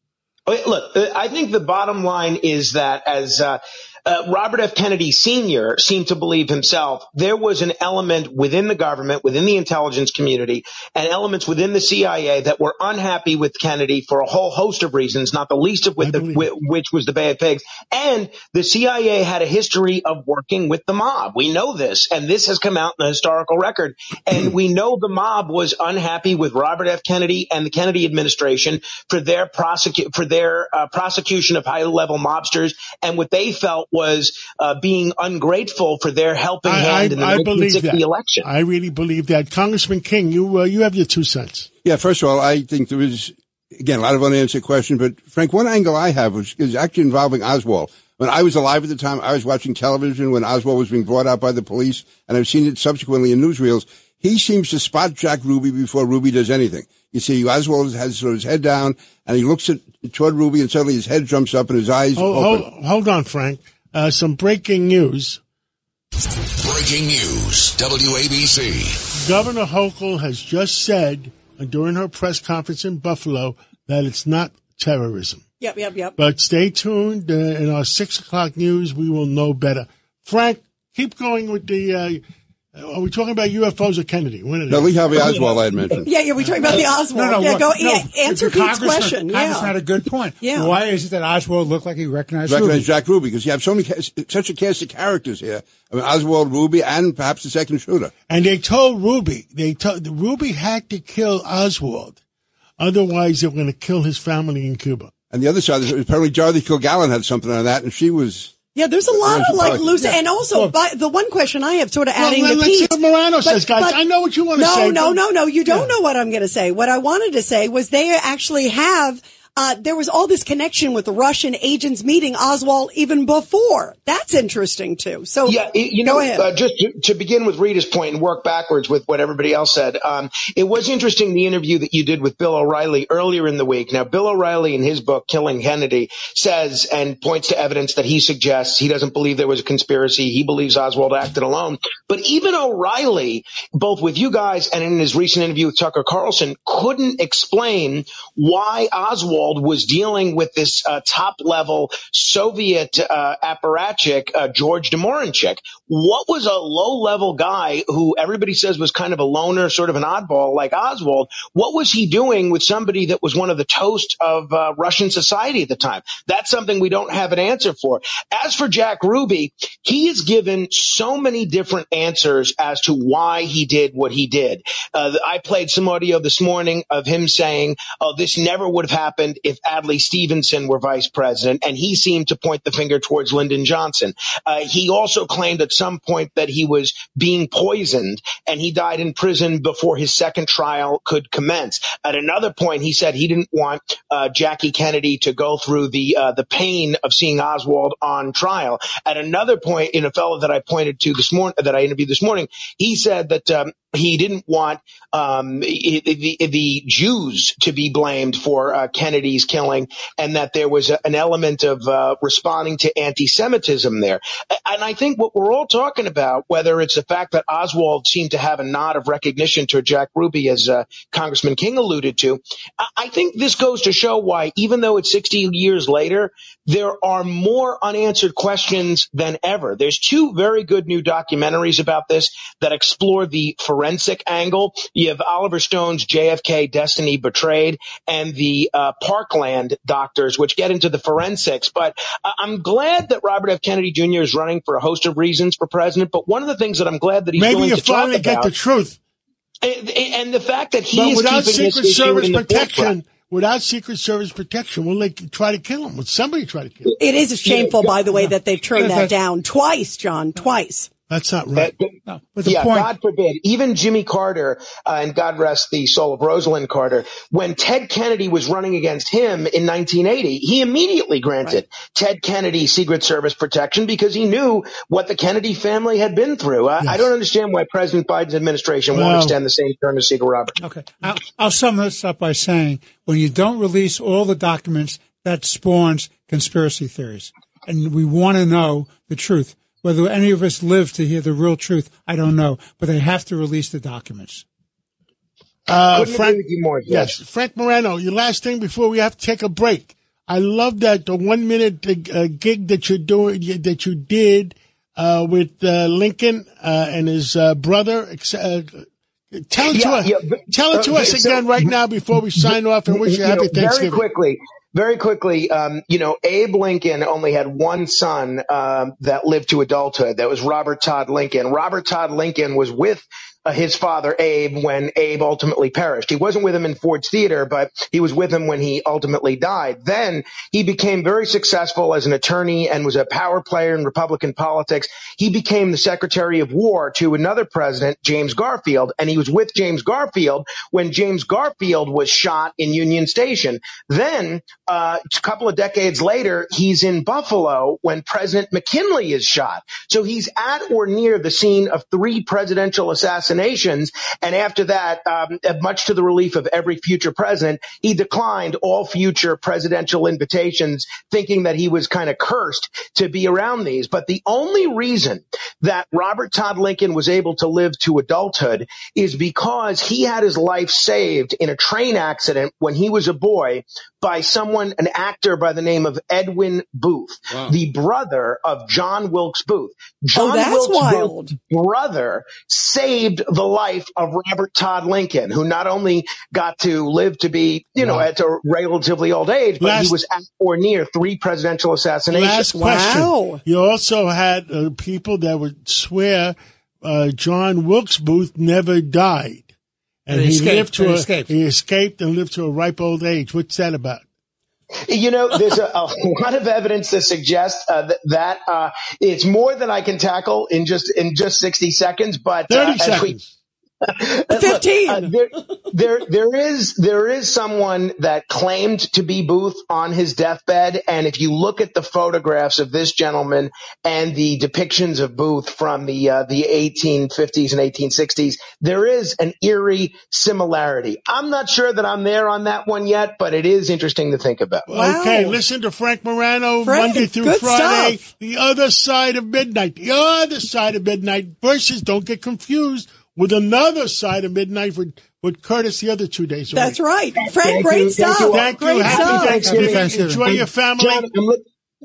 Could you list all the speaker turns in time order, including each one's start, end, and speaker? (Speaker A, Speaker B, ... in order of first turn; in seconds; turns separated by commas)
Speaker A: 0.5-38.5, Speaker B: 16.0-16.5, Speaker B: 36.6-41.7, Speaker C: 41.8-62.7, Speaker B: 62.2-65.4, Speaker D: 66.5-69.0, Speaker B: 69.2-75.4, Speaker E: 75.6-76.2, Speaker B: 76.2-82.2, Speaker B: 82.8-85.2, Speaker C: 84.7-86.1, Speaker E: 86.0-89.8, Speaker F: 86.4-92.9, Speaker E: 90.4-90.7, Speaker C: 92.5-98.1, Speaker B: 98.3-102.2, Speaker B: 102.8-105.1, Speaker C: 105.3-108.5, Speaker E: 108.7-114.0, Speaker C: 109.1-110.0, Speaker F: 110.0-110.7, Speaker B: 112.2-115.9, Speaker E: 114.5-126.5, Speaker A: 125.5-248.5, Speaker B: 247.3-249.0, Speaker A: 249.6-252.9, Speaker B: 250.9-257.0, Speaker E: 257.0-260.9, Speaker A: 257.4-257.7, Speaker F: 258.1-259.1, Speaker B: 261.1-261.7, Speaker A: 261.6-280.6, Speaker F: 262.1-262.9, Speaker F: 276.8-277.1, Speaker B: 278.9-279.4, Speaker F: 280.6-294.4, Speaker B: 295.7-314.1, Speaker A: 295.9-297.1, Speaker A: 309.7-311.6, Speaker A: 312.4-392.5, Speaker E: 380.1-381.4, Speaker B: 387.8-388.1, Speaker B: 389.6-390.0, Speaker B: 392.1-399.5, Speaker E: 392.5-393.4, Speaker B: 400.1-404.0, Speaker F: 400.1-401.3, Speaker A: 404.9-413.2, Speaker B: 412.5-413.4, Speaker A: 413.8-434.7, Speaker E: 414.3-415.1, Speaker B: 434.7-446.8, Speaker E: 434.7-435.4, Speaker E: 436.6-438.0, Speaker E: 446.5-449.5, Speaker A: 447.2-449.9, Speaker B: 448.3-451.1, Speaker F: 448.9-450.5, Speaker A: 450.8-451.4